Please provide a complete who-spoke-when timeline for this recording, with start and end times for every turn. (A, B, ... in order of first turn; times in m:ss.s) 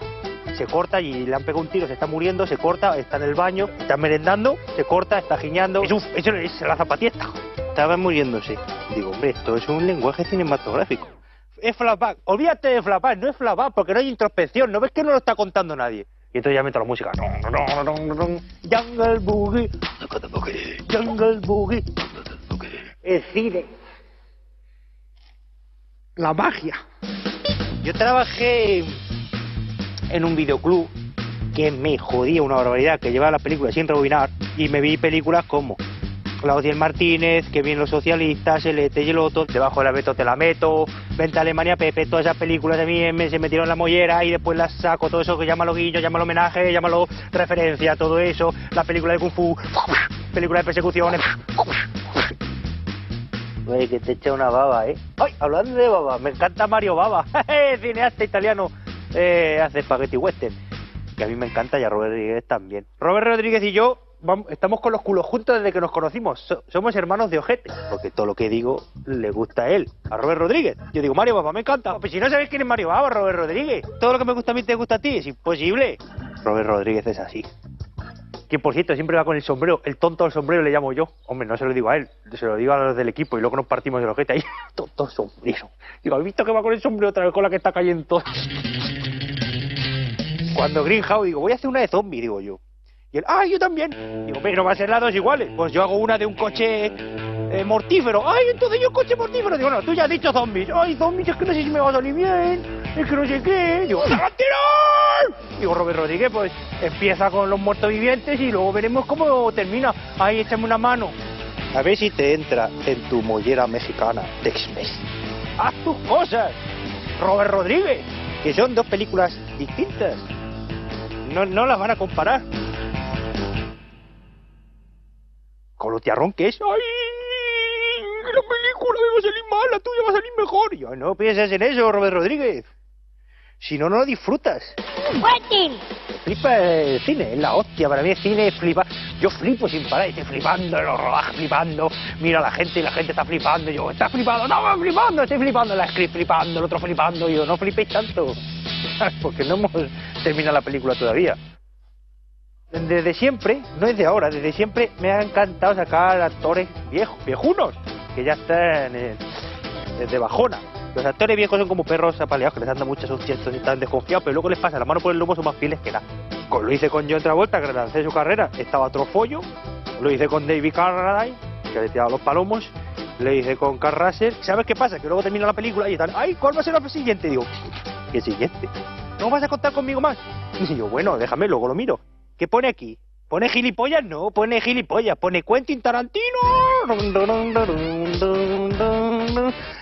0:00.5-0:21.8 A
0:22.5-0:23.7 A
0:26.2-0:26.8 A
0:27.8-0:29.0 A
0:30.1-0:30.9 A
0:31.5-0:35.8 A
0:36.4-0:52.3 A
0:53.6-1:00.6 A
1:01.2-1:17.5 A
1:18.5-1:28.4 A
1:30.5-1:32.6 A
1:33.1-1:51.1 A
1:51.7-1:55.0 A
1:55.6-1:56.6 A
1:57.2-2:00.3 A
2:01.2-2:02.4 A
2:05.8-2:12.6 A
2:13.6-2:14.8 A
2:16.0-2:31.4 A
2:32.7-2:39.2 A
2:40.0-2:49.5 A
2:50.0-2:57.5 A
2:58.1-3:09.6 A